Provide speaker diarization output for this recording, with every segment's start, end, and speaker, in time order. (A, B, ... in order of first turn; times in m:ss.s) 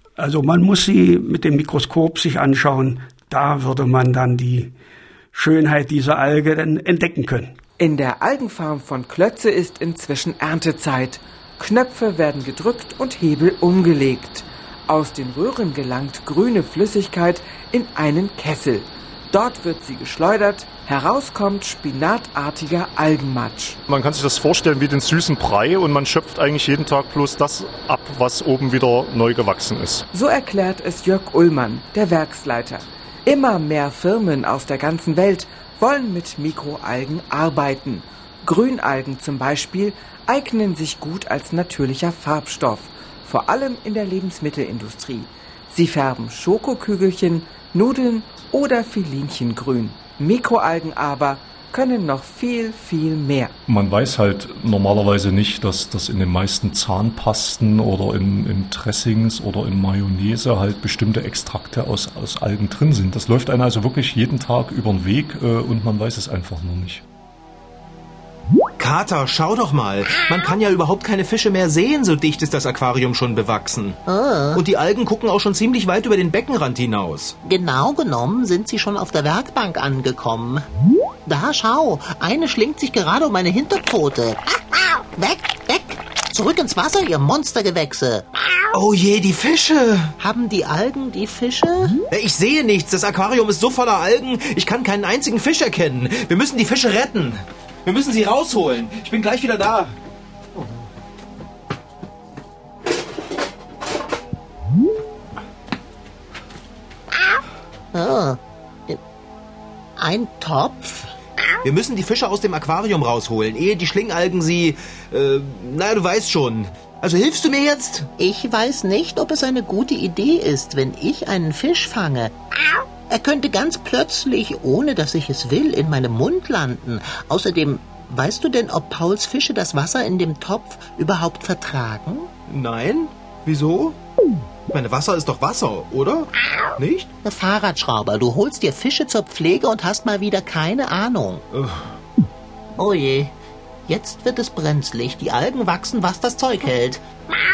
0:00.2-0:04.7 A
0:05.3-0:07.6 A
0:07.8-0:23.8 B
0:23.9-0:30.0 C
0:30.1-0:53.6 B
0:53.7-1:07.0 C
1:08.8-1:14.0 D
1:14.1-1:14.6 E
1:14.5-1:17.4 D
1:17.4-1:20.7 E
1:21.3-1:28.3 E
1:28.7-1:30.1 D
1:30.2-1:32.0 E
1:32.1-1:40.0 D
1:47.9-1:49.0 E
1:50.0-1:51.1 E
1:51.6-1:58.1 D
1:58.2-2:02.4 E
2:03.1-2:12.3 E
2:12.5-2:14.0 D
2:14.7-2:17.1 D
2:17.2-2:21.4 E
2:21.5-2:21.9 D
2:22.8-2:23.4 E
2:23.9-2:27.0 E